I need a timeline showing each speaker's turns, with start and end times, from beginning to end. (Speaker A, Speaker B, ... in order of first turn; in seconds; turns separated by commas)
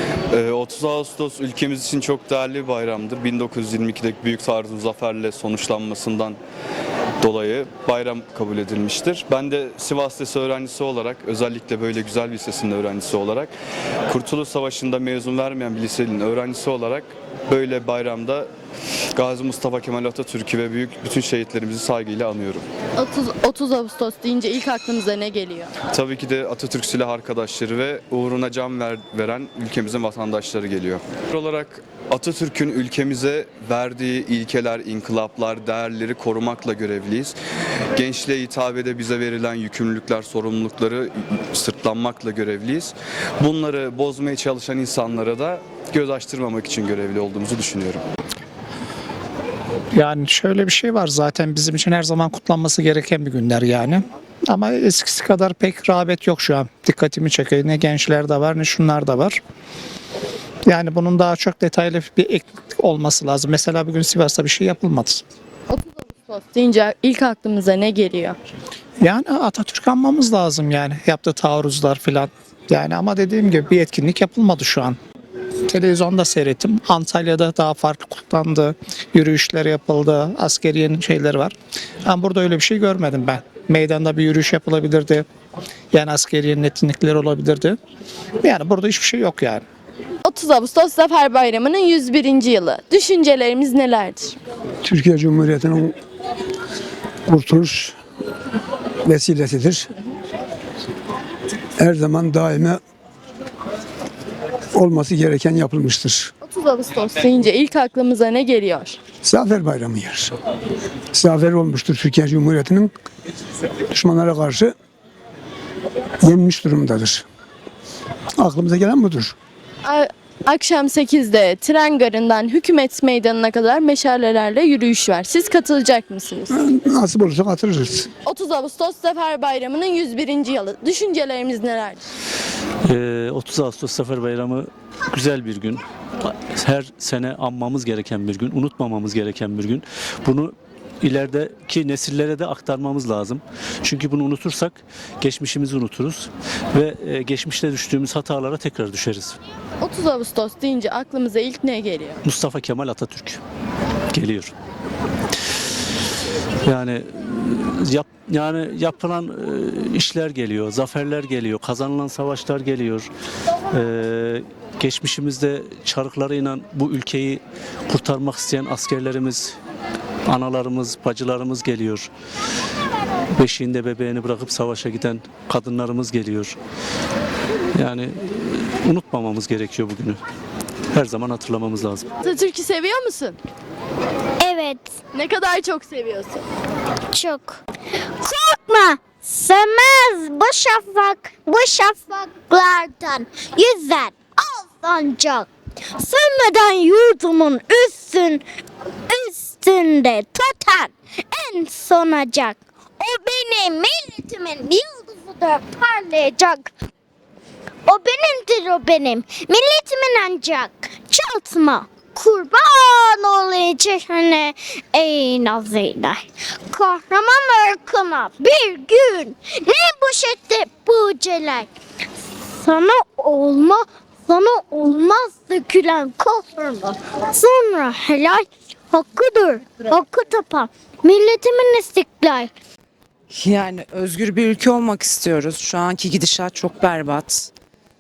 Speaker A: 0.3-6.4, Speaker A: 7.2-13.5, Speaker A: 14.1-18.5, Speaker A: 19.2-22.7, Speaker B: 23.0-25.7, Speaker A: 25.9-37.4, Speaker A: 38.0-48.0, Speaker C: 50.0-59.4, Speaker C: 60.7-65.2, Speaker B: 65.7-68.4, Speaker C: 69.0-75.0, Speaker C: 75.7-81.5, Speaker C: 82.1-85.2, Speaker C: 85.9-87.8, Speaker C: 88.4-89.6, Speaker B: 90.2-94.4, Speaker D: 94.8-95.9, Speaker D: 97.3-98.0, Speaker D: 99.0-99.9, Speaker D: 101.8-102.8, Speaker D: 104.7-106.3, Speaker B: 106.4-109.0, Speaker D: 109.2-110.4, Speaker D: 111.1-112.9, Speaker D: 113.9-114.7, Speaker D: 116.2-117.2, Speaker D: 118.4-119.3, Speaker B: 119.8-126.6, Speaker D: 126.6-128.1, Speaker B: 128.2-132.0, Speaker E: 132.9-149.4, Speaker B: 149.8-152.2, Speaker E: 152.2-153.4, Speaker E: 154.1-154.5, Speaker E: 156.6-163.1, Speaker E: 163.7-169.6, Speaker E: 170.3-172.1, Speaker E: 173.4-176.6, Speaker E: 177.8-180.2, Speaker E: 180.9-182.1, Speaker B: 182.2-183.4, Speaker F: 184.4-184.9, Speaker B: 185.1-186.4, Speaker F: 187.1-187.6, Speaker F: 188.2-198.4, Speaker F: 199.1-206.7, Speaker F: 207.9-221.7, Speaker F: 222.6-232.5, Speaker G: 233.3-237.5